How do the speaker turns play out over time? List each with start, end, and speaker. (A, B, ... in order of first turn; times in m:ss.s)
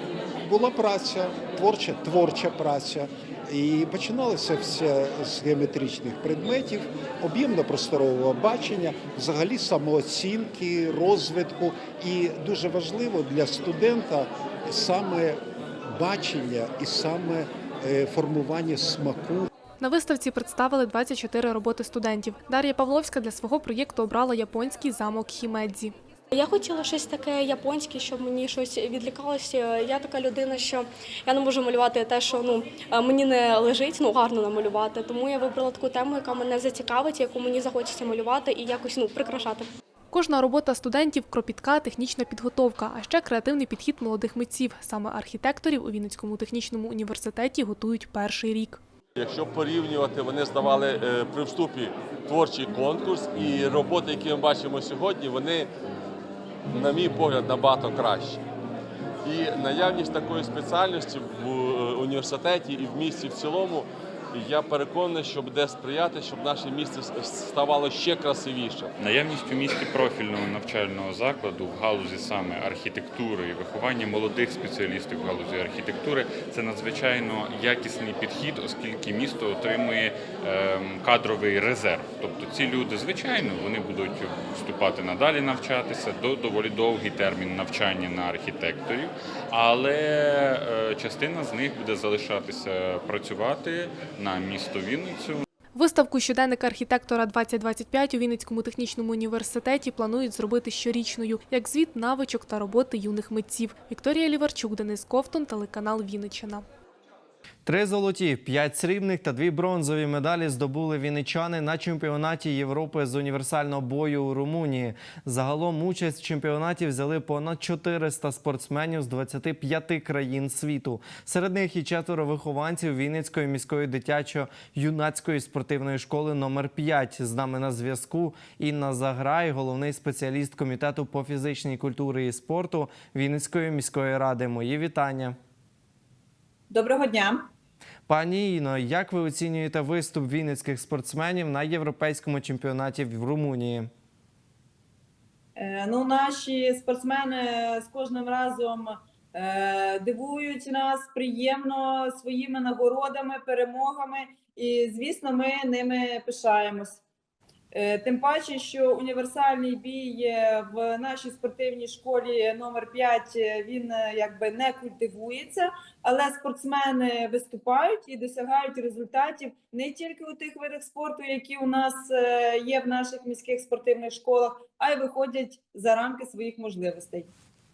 0:00.4-0:19.5 A
0:19.8-0:25.9 B
0:26.3-0:39.7 C
0:40.1-0:48.8 B
0:49.2-0:55.7 D
0:56.7-0:58.4 D
0:59.2-1:08.9 D
1:09.0-1:35.4 E
1:35.7-1:46.6 B
1:47.6-2:15.4 F
2:16.7-2:17.5 G
2:18.1-2:23.9 F
2:25.6-2:37.0 G
2:37.7-2:57.3 G